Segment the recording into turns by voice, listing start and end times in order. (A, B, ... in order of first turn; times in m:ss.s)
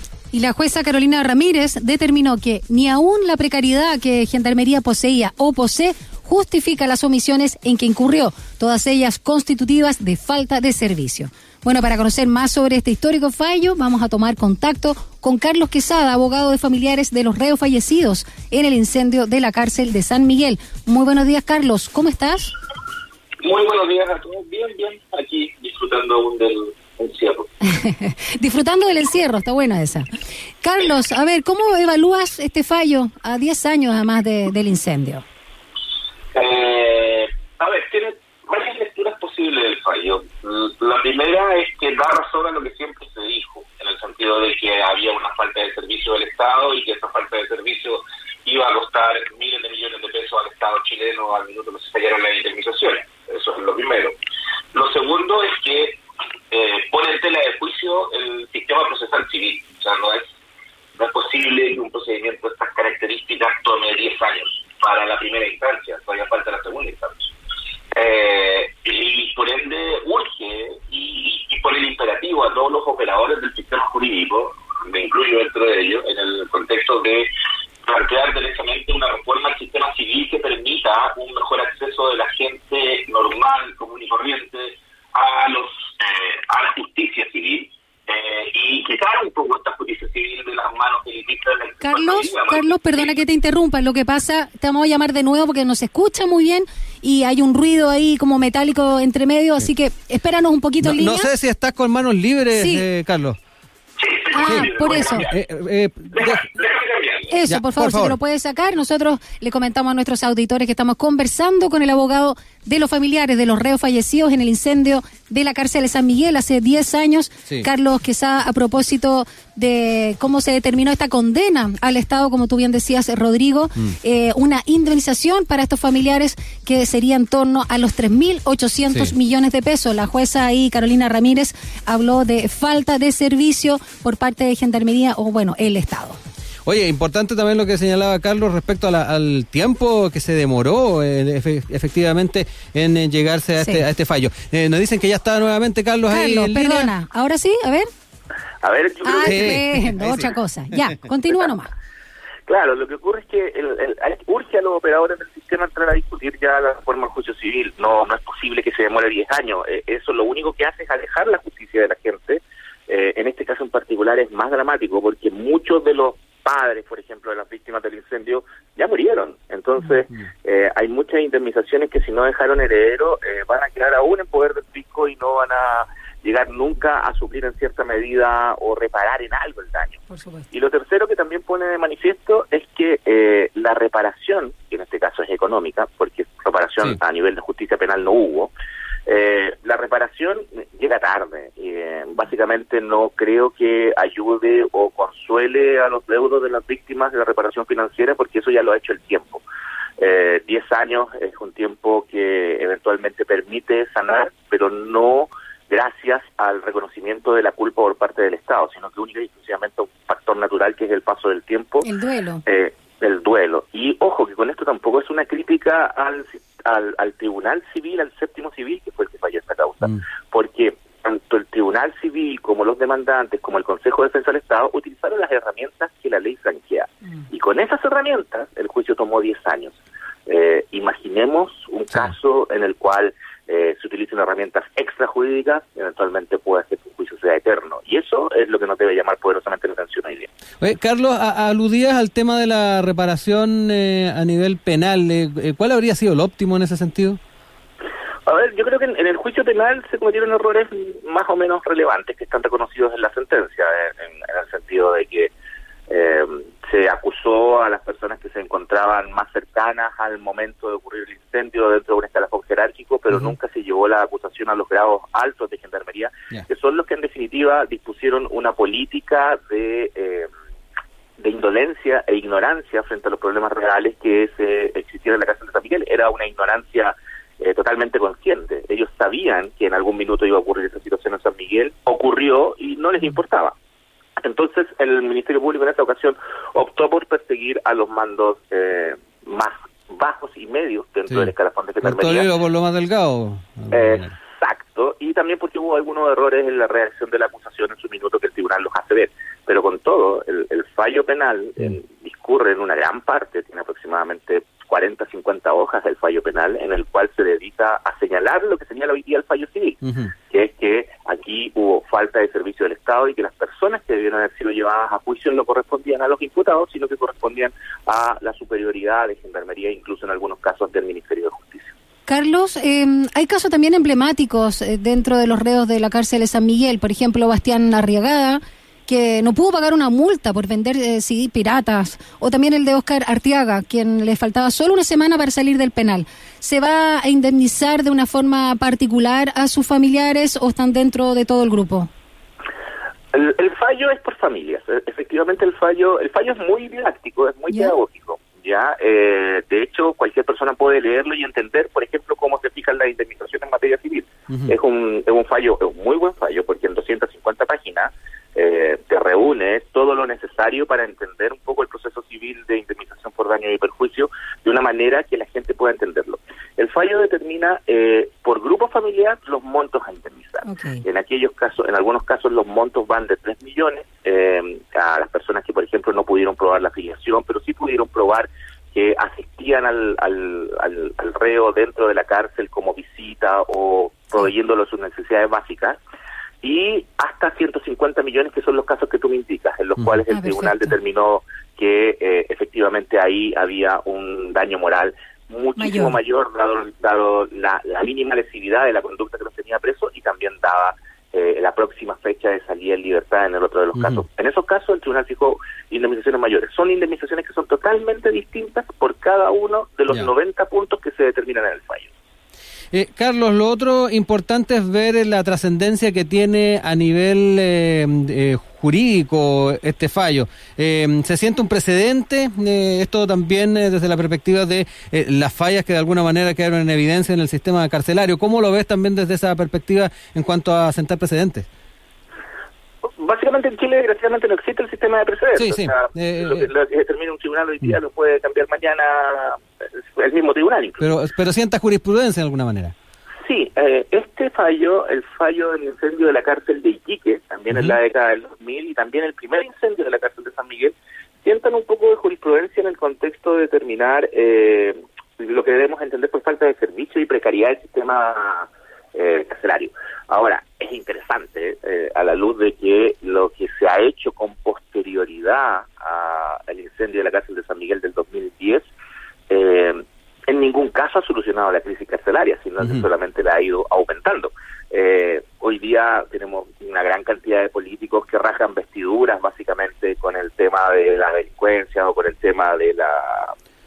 0:00.3-0:22.5 A
0:23.4-0:27.5 B
0:27.6-0:30.0 A
0:30.6-0:35.2 A
0:36.3-0:54.1 B
0:54.7-0:56.0 B
0:56.5-1:00.3 B
1:01.0-1:07.3 B
1:07.9-1:17.3 B
1:17.8-1:33.2 B
1:31.8-1:41.3 A
1:40.8-1:43.4 C
1:42.5-1:42.8 A
1:44.0-1:45.4 B
1:44.3-1:45.2 A
1:44.4-1:46.4 C
1:46.1-1:47.4 B
1:47.3-2:16.2 A
1:47.5-1:48.2 C
2:16.6-2:26.9 C
2:23.6-2:23.8 A
2:26.1-2:27.9 A
2:28.6-2:29.6 B
2:29.0-2:31.7 A
2:29.2-2:30.3 C
2:32.5-3:00.0 B
3:00.1-3:00.4 A
3:00.5-3:08.5 B
3:09.0-3:19.4 B
3:20.0-3:31.8 B
3:31.8-3:32.4 A
3:32.4-4:00.3 B
4:00.6-4:07.2 C
4:08.2-4:15.3 B
4:15.9-4:30.3 B
4:31.2-4:43.6 B
4:44.2-4:52.3 B
4:51.8-4:54.1 C
4:53.7-5:21.7 B
5:09.8-5:10.1 C
5:22.1-5:41.9 A
5:43.1-6:25.8 B
6:10.4-6:10.8 A
6:26.4-6:51.9 B
6:30.1-6:30.6 A
6:35.6-6:36.0 A
6:52.7-7:11.5 C
7:13.0-7:19.4 B
7:15.4-7:16.5 C
7:20.0-7:20.8 B
7:20.8-7:22.7 C
7:23.2-7:48.7 B
7:49.3-8:03.3 B